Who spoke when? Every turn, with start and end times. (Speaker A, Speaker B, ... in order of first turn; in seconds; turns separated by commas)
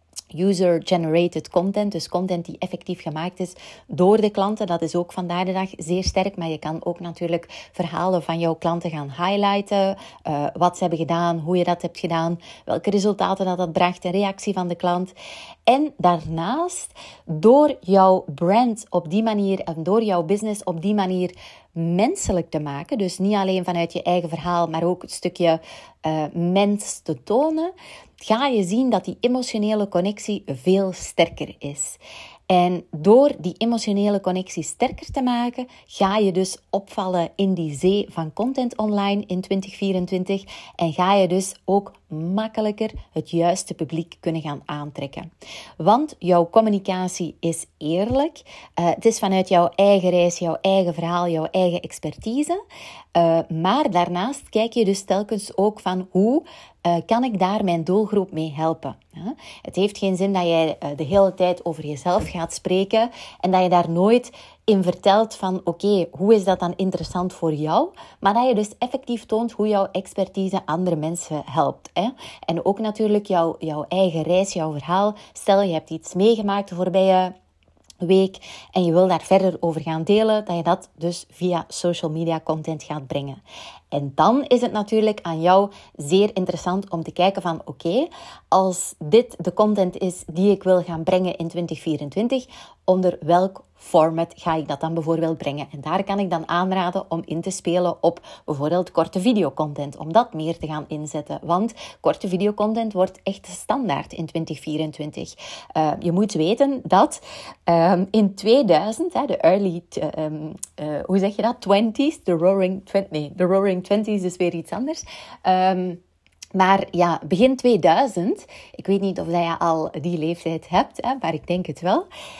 Speaker A: 0.3-15.1, Speaker A: 15.7-45.3, Speaker A: 45.8-52.6, Speaker A: 53.1-77.3, Speaker A: 78.0-116.0, Speaker A: 116.5-122.1